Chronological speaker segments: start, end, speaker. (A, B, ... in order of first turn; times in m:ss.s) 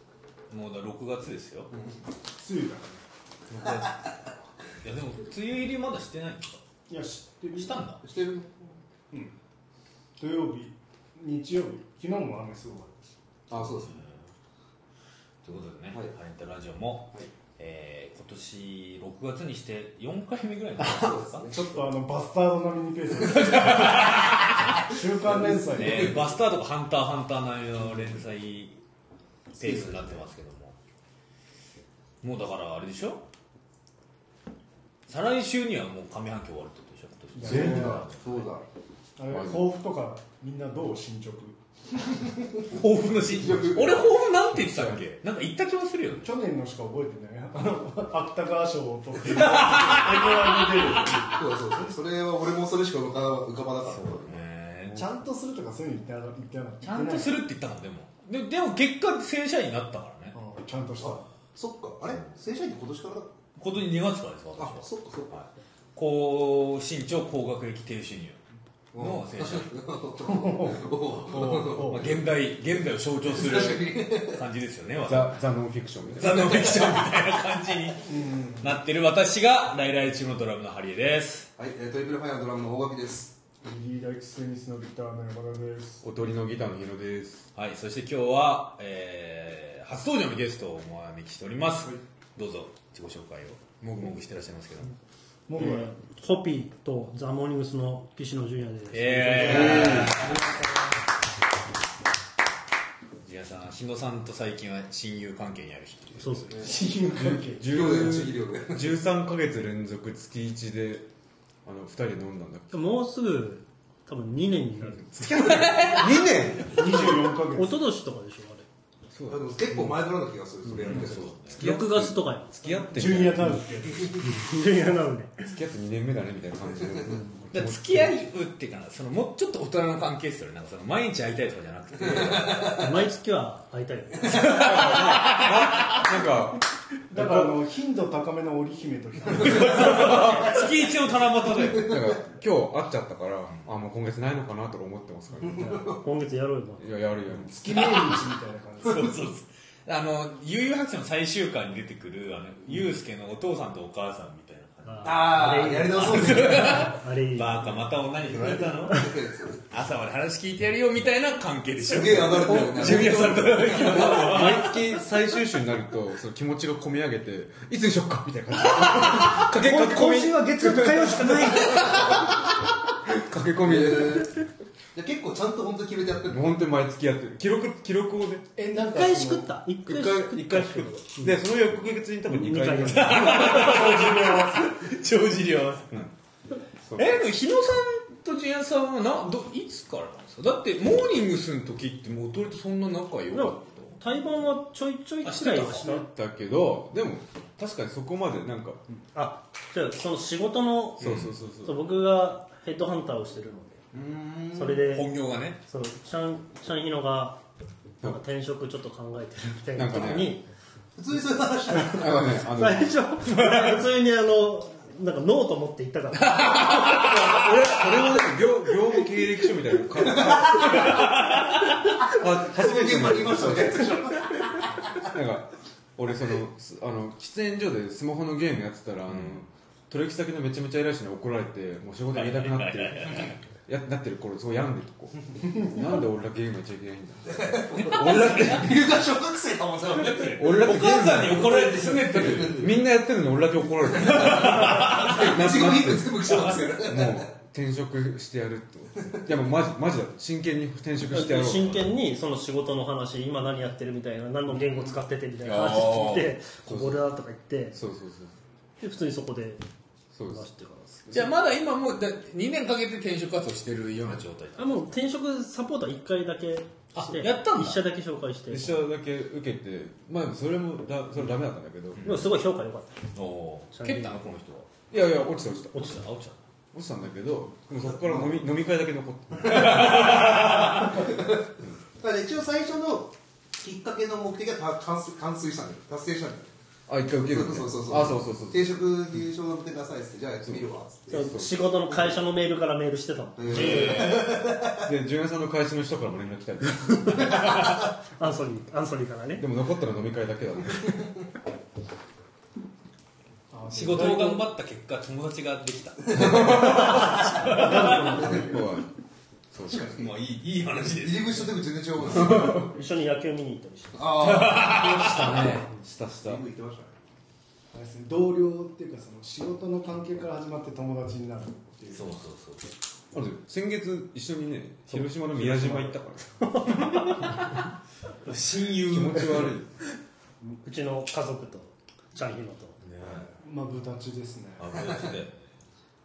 0:00.5-0:01.7 A
0:01.7-0:02.0 B
0:02.3-0:03.0 C
0:03.5-0:04.0 A
0:03.6-0:03.9 B
0:04.8-0:06.6 A
0:06.9-0:07.8 C
0:07.5-0:08.0 A
0:08.0-0:08.8 B
0:10.2-0:13.1 C
0:13.5-0:14.0 B
0:13.5-0:14.2 A
0:15.4-0:21.4 A
0:20.8-0:21.9 B
0:21.5-0:24.2 C
0:23.4-0:24.5 A
0:24.8-0:26.2 C
0:25.2-0:26.2 B
0:25.7-0:28.8 A
0:29.5-0:30.2 B
0:29.6-0:30.8 A
0:32.2-0:33.2 A
0:35.1-0:38.5 A
0:37.3-0:38.0 C
0:37.4-0:38.7 B
0:39.2-0:41.6 C
0:39.3-0:39.6 D
0:42.7-0:46.2 A
0:43.3-0:44.1 B
0:44.6-0:45.0 D
0:46.2-0:51.4 C
0:49.2-0:51.2 A
0:51.3-0:54.4 B
0:53.8-0:55.1 A
0:54.9-0:57.3 C
0:56.8-1:00.4 A
1:00.3-1:01.2 C
1:01.0-1:03.3 B
1:03.6-1:08.4 A
1:04.6-1:05.4 B
1:08.9-1:12.2 B
1:09.0-1:09.7 A
1:10.2-1:12.1 C
1:11.8-1:15.4 A
1:13.2-1:14.4 B
1:15.0-1:16.7 D
1:16.2-1:21.5 A
1:18.0-1:18.7 C
1:21.6-1:23.3 B
1:23.6-1:26.0 C
1:26.0-1:27.4 D
1:27.5-1:34.9 A
1:35.5-1:35.9 C
1:35.5-1:40.2 E
1:38.9-1:40.4 A
1:39.4-1:40.2 D
1:39.5-1:40.9 C
1:43.2-1:46.5 A
1:46.2-1:46.5 E
1:46.6-1:48.0 C
1:47.1-1:51.1 D
1:47.7-1:48.9 B
1:51.6-1:52.8 D
1:52.7-1:55.3 E
1:55.0-1:57.0 D
1:55.2-1:56.1 A
1:56.6-1:57.8 C
1:57.5-1:58.6 E
1:59.1-2:00.0 D
1:59.3-2:01.4 B
2:00.7-2:03.3 E
2:00.8-2:01.6 A
2:01.4-2:03.6 D
2:02.9-2:04.2 C
2:04.2-2:05.5 E
2:05.4-2:08.1 D
2:07.5-2:12.9 A
2:12.2-2:12.8 B
2:12.7-2:15.1 E
2:14.3-2:16.0 A
2:14.3-2:17.6 D
2:17.1-2:20.1 C
2:19.3-2:21.9 A
2:21.5-2:22.1 B
2:21.8-2:25.9 D
2:25.4-2:26.0 B
2:25.8-2:26.9 E
2:26.8-2:27.8 D
2:27.4-2:29.2 C
2:27.7-2:28.2 A
2:28.8-2:35.4 A
2:34.8-2:37.7 E
2:35.0-2:36.9 B
2:35.9-2:39.2 A
2:38.2-2:39.6 B
2:38.9-2:39.1 E
2:39.7-2:44.8 A
2:41.8-2:44.4 B
2:42.6-2:52.2 D
2:48.7-2:52.0 E
2:53.0-2:54.3 D
2:53.6-2:54.3 B
2:54.9-2:56.5 B
2:56.3-2:58.5 D
2:58.6-2:59.5 C
2:58.7-3:01.4 E
2:59.8-3:03.4 D
3:02.3-3:04.6 E
3:02.9-3:05.9 A
3:03.1-3:04.6 C
3:06.8-3:07.2 D
3:07.0-3:14.0 A
3:13.3-3:16.1 E
3:15.2-3:16.0 A
3:15.9-3:18.8 D
3:18.9-3:21.1 E
3:21.0-3:21.3 A
3:21.0-3:21.8 D
3:21.6-3:23.8 E
3:23.9-3:24.8 B
3:24.5-3:25.1 E
3:24.7-3:25.6 A
3:25.6-3:27.4 E
3:28.0-3:30.4 E
3:29.7-3:30.3 D
3:31.0-3:32.3 B
3:31.7-3:33.0 D
3:31.7-3:37.1 E
3:33.3-3:33.7 A
3:36.2-3:37.3 A
3:36.8-3:41.2 D
3:40.1-3:40.7 B
3:40.7-3:41.5 A
3:42.1-3:43.9 D
3:42.5-3:45.1 B
3:45.1-3:58.8 D
3:49.1-3:49.4 A
3:52.1-3:53.3 A
3:57.3-4:00.4 B
3:59.9-4:02.7 A
4:00.4-4:06.1 D
4:01.5-4:02.7 B
4:04.0-4:05.4 A
4:04.0-4:07.3 B
4:06.2-4:06.7 A
4:06.8-4:11.9 D
4:11.0-4:17.8 E
4:15.4-4:17.0 D
4:17.7-4:18.3 D
4:18.8-4:19.6 E
4:20.1-4:20.4 D
4:20.3-4:21.1 E
4:21.1-4:24.8 A
4:24.6-4:28.8 E
4:26.9-4:27.8 A
4:28.5-4:32.0 D
4:32.0-4:32.3 A
4:32.0-4:33.0 E
4:33.1-4:34.7 A
4:33.7-4:34.3 E
4:34.9-4:35.9 D
4:35.7-4:36.4 A
4:36.7-4:40.6 D
4:39.4-4:40.6 A
4:39.5-4:41.4 B
4:42.0-4:46.5 B
4:46.9-4:48.7 D
4:47.2-4:51.4 B
4:50.4-4:52.2 D
4:51.1-4:54.1 E
4:53.4-4:54.9 B
4:53.5-4:54.3 A
4:54.8-4:57.2 D
4:56.9-4:57.6 E
4:58.2-4:59.4 E
4:59.4-5:00.9 D
5:03.5-5:04.4 C
5:03.7-5:08.3 A
5:06.1-5:08.9 D
5:06.9-5:07.3 E
5:07.4-5:08.6 C
5:08.1-5:08.5 B
5:09.5-5:10.0 D
5:09.7-5:11.5 A
5:10.8-5:12.7 B
5:12.1-5:12.7 D
5:12.4-5:14.1 E
5:13.9-5:15.2 B
5:14.2-5:15.5 A
5:14.6-5:16.4 D
5:16.2-5:16.9 B
5:17.7-5:22.2 C
5:21.9-5:22.7 A
5:23.1-5:26.3 D
5:25.3-5:25.9 C
5:26.4-5:27.1 E
5:28.2-5:29.5 A
5:28.8-5:29.7 D
5:30.4-5:32.8 E
5:32.8-5:33.2 A
5:33.0-5:33.3 B
5:33.4-5:34.7 C
5:34.6-5:35.4 A